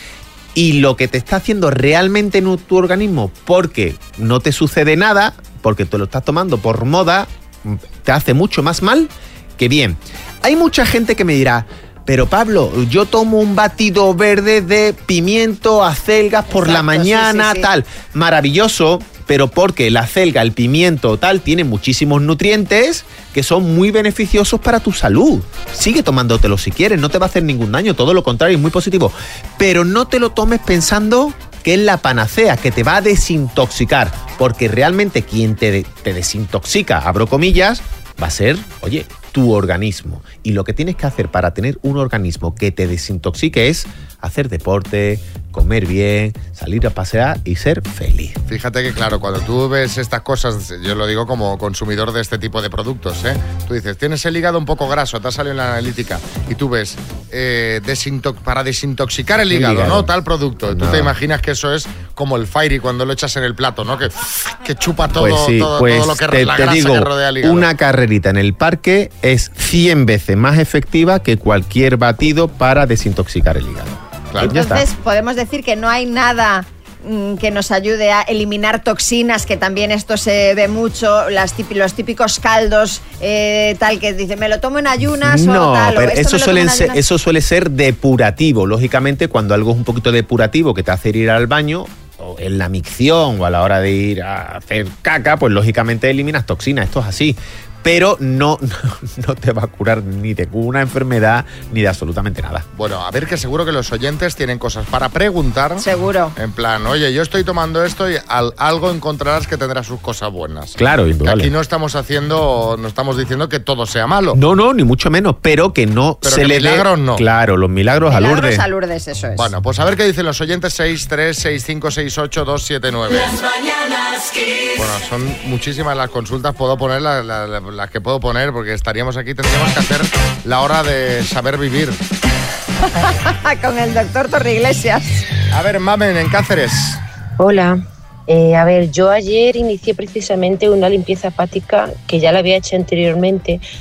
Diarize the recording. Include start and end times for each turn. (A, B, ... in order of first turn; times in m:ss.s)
0:00.5-0:48.4 A
0:16.5-0:17.7 B
0:48.5-1:07.7 C
0:59.5-1:01.1 A
1:05.2-1:14.8 A
1:14.4-1:27.0 B
1:25.2-1:42.7 A
1:42.7-1:45.8 C
1:45.8-1:46.4 B
1:46.4-1:54.4 C
1:50.8-1:51.5 A
1:54.3-1:58.6 A
1:56.2-1:57.2 C
1:58.1-1:59.5 B
1:59.4-2:03.4 C
2:04.7-2:12.0 C
2:13.0-2:15.2 B
2:15.5-2:17.0 C
2:17.4-2:23.6 D